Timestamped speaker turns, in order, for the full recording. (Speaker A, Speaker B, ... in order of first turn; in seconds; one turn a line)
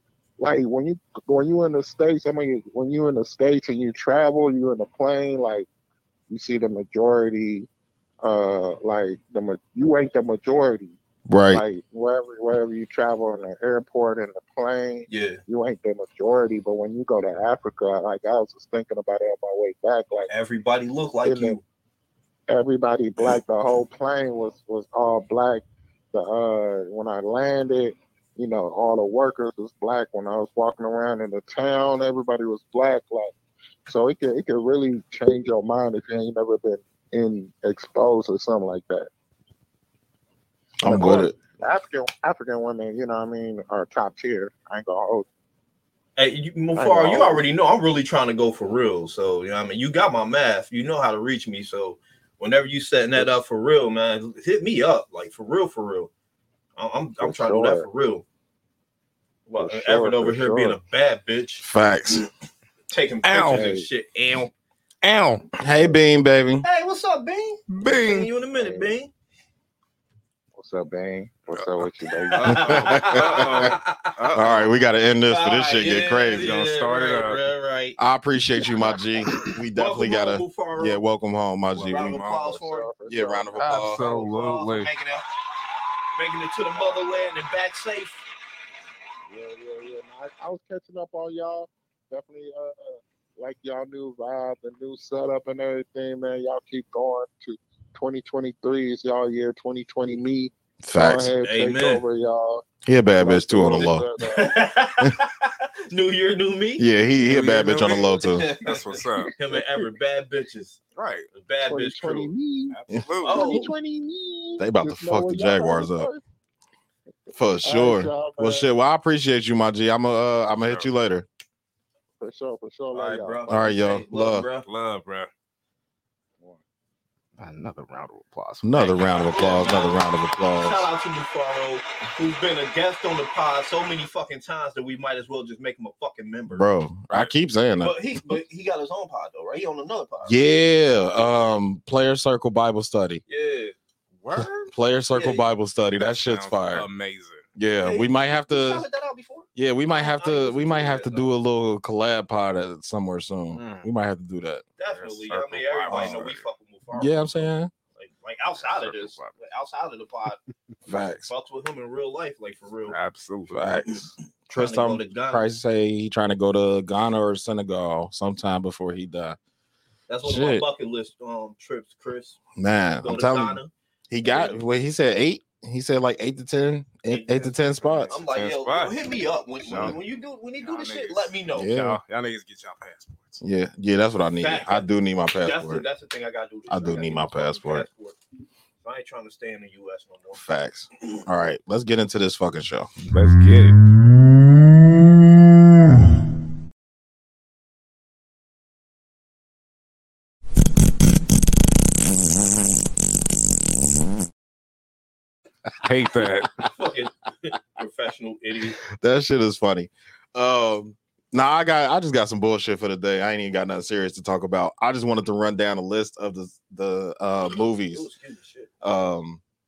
Speaker A: 0.4-5.7
Speaker A: 6.3-7.7
Speaker A: 8.2-10.9
Speaker B: 11.3-11.6
Speaker A: 11.5-20.3
Speaker C: 15.1-15.4
Speaker C: 20.3-21.6
Speaker A: 21.2-21.6
Speaker A: 22.5-33.3
Speaker A: 33.9-39.1
Speaker B: 40.8-41.3
Speaker A: 40.8-45.2
Speaker C: 46.1-56.1
Speaker A: 46.8-47.5
Speaker A: 53.1-53.4
Speaker C: 56.8-58.2
Speaker A: 57.2-57.9
Speaker C: 59.5-61.6
Speaker A: 59.6-60.8
Speaker B: 61.6-62.3
Speaker C: 62.9-64.5
Speaker D: 63.2-63.7
Speaker A: 63.4-63.9
Speaker D: 65.0-65.5
Speaker B: 65.6-66.6
Speaker C: 66.6-69.1
Speaker D: 67.7-68.3
Speaker A: 68.5-69.0
Speaker A: 70.5-73.2
Speaker D: 72.3-74.7
Speaker C: 72.3-74.2
Speaker B: 72.5-73.7
Speaker B: 74.3-76.5
Speaker C: 75.3-78.0
Speaker D: 76.4-77.4
Speaker B: 78.0-82.2
Speaker C: 79.3-81.0
Speaker D: 81.7-82.5
Speaker C: 81.9-82.9
Speaker A: 82.3-83.7
Speaker B: 83.0-84.0
Speaker D: 83.6-84.9
Speaker C: 83.8-85.3
Speaker C: 86.1-88.2
Speaker A: 89.3-102.6
Speaker B: 100.8-101.3
Speaker C: 101.4-102.0
Speaker B: 102.8-104.0
Speaker A: 103.2-104.6
Speaker C: 103.8-106.8
Speaker B: 106.8-108.5
Speaker D: 107.2-109.3
Speaker C: 108.2-110.8
Speaker A: 109.2-109.6
Speaker D: 111.0-111.3
Speaker C: 111.3-112.3
Speaker A: 111.6-116.2
Speaker D: 112.7-113.6
Speaker C: 113.2-113.7
Speaker B: 114.6-116.1
Speaker B: 117.3-121.2
Speaker A: 117.6-118.7
Speaker A: 122.2-123.5
Speaker C: 122.9-124.7
Speaker B: 123.5-124.5
Speaker D: 124.7-125.3
Speaker D: 127.4-129.5
Speaker B: 128.6-130.9
Speaker C: 129.1-130.0
Speaker C: 130.6-136.7
Speaker B: 136.5-137.9
Speaker C: 137.8-140.4
Speaker B: 140.2-143.2
Speaker C: 143.3-143.7
Speaker D: 144.2-144.7
Speaker B: 144.7-146.9
Speaker C: 145.1-145.5
Speaker D: 145.9-147.4
Speaker B: 147.5-148.8
Speaker C: 147.8-151.3
Speaker B: 149.6-154.6
Speaker D: 153.5-153.9
Speaker C: 154.8-160.4
Speaker D: 154.9-156.4
Speaker B: 155.9-156.2
Speaker B: 156.9-157.7
Speaker D: 158.6-159.3
Speaker B: 160.9-161.3
Speaker C: 161.3-163.0
Speaker D: 162.9-163.8
Speaker B: 163.5-169.4
Speaker C: 164.5-165.4
Speaker C: 170.1-172.4
Speaker B: 170.2-170.7
Speaker B: 172.6-178.2
Speaker C: 173.0-173.7
Speaker C: 174.2-174.6
Speaker C: 177.1-181.7
Speaker D: 178.1-180.0
Speaker B: 179.7-179.9
Speaker D: 180.6-183.4
Speaker B: 181.5-182.0
Speaker B: 183.4-185.8
Speaker C: 184.4-188.2
Speaker B: 186.7-187.9
Speaker C: 188.8-190.4
Speaker B: 190.3-192.9
Speaker D: 193.0-193.8
Speaker D: 205.8-206.7
Speaker C: 206.6-208.8
Speaker B: 209.0-218.1
Speaker C: 217.5-218.7
Speaker B: 218.8-219.4